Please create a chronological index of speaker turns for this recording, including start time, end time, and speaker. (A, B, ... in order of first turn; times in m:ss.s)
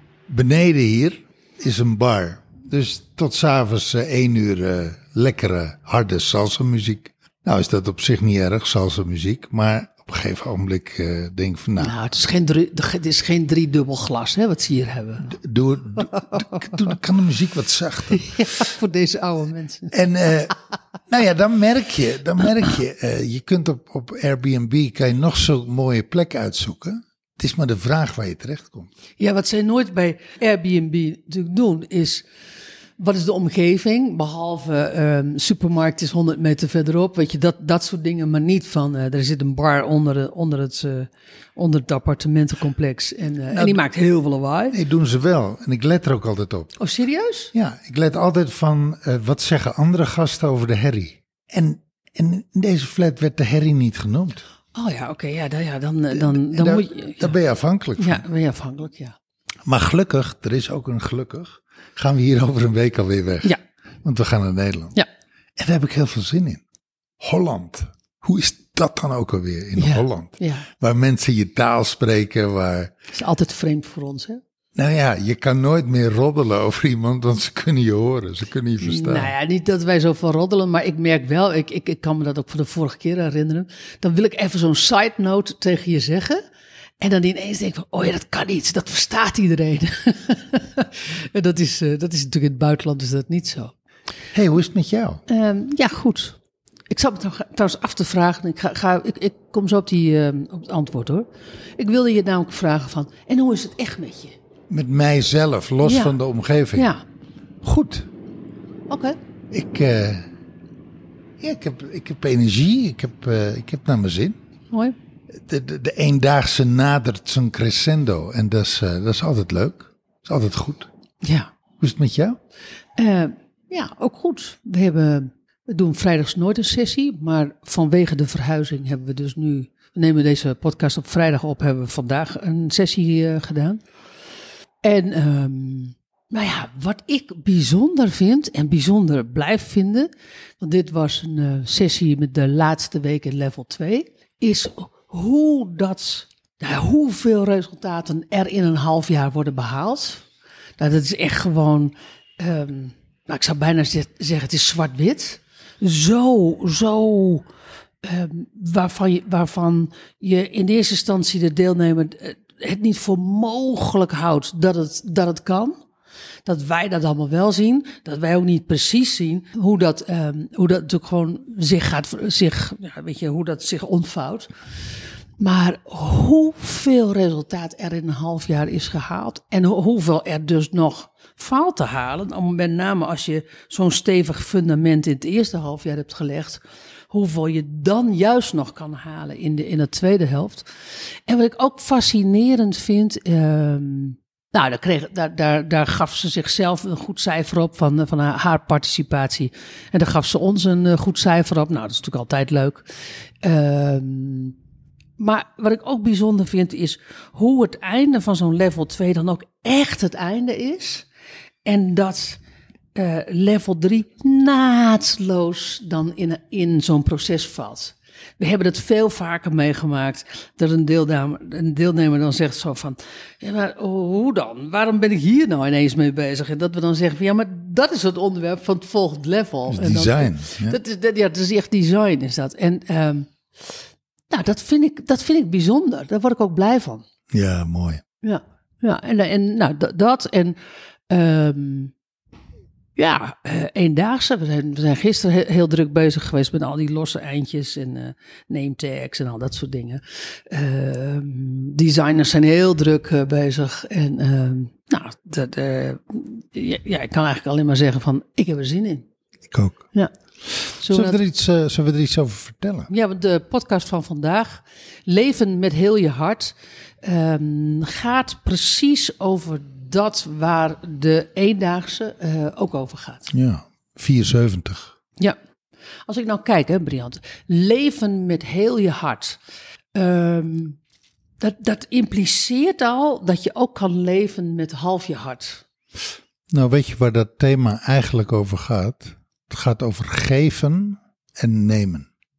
0:00.3-0:11.9 A
0:11.8-0:15.3 B
0:15.2-0:18.4 A
0:18.1-0:19.9 B
0:19.9-0:20.6 A
0:21.1-0:28.9 A
0:29.2-0:32.3 B
0:33.0-0:44.8 B
0:43.5-0:43.8 A
0:44.7-0:46.7 A
0:46.8-0:47.5 B
0:47.5-0:54.4 A
0:54.7-0:57.3 B
0:56.1-0:58.2 A
0:58.0-0:59.2 B
0:59.6-1:05.0 A
1:05.6-1:06.6 A
1:07.2-1:12.9 A
1:09.8-1:10.6 B
1:13.1-1:14.4 B
1:14.7-1:19.3 A
1:18.8-1:26.4 B
1:27.0-1:33.7 B
1:34.3-1:35.2 A
1:35.3-1:36.4 B
1:36.9-1:44.4 B
1:44.7-1:46.9 A
1:45.8-1:46.2 B
1:46.7-1:47.0 B
1:47.6-1:48.1 A
1:48.9-1:49.2 B
1:49.5-1:50.3 A
1:51.4-1:54.4 A
1:55.5-2:00.9 A
2:01.2-2:01.5 B
2:01.8-2:02.4 A
2:03.0-2:13.8 B
2:14.8-2:30.2 B
2:30.8-2:37.5 B
2:38.0-2:45.8 B
2:46.4-2:54.5 B
2:55.4-3:10.7 B
3:11.2-3:22.9 B
3:23.4-3:24.6 B
3:25.2-3:31.1 B
3:31.6-3:32.4 B
3:32.9-3:53.7 B
3:49.7-3:50.8 A
3:54.3-3:57.0 B
3:57.3-3:58.0 A
3:58.2-4:00.6 B
4:01.1-4:01.9 B
4:03.0-4:19.1 B
4:19.5-4:19.8 A
4:20.6-4:22.9 A
4:20.8-4:21.2 B
4:22.9-4:33.3 B
4:33.3-4:35.0 A
4:36.1-4:39.4 B
4:39.9-4:40.8 B
4:41.4-4:45.6 B
4:46.5-4:52.1 A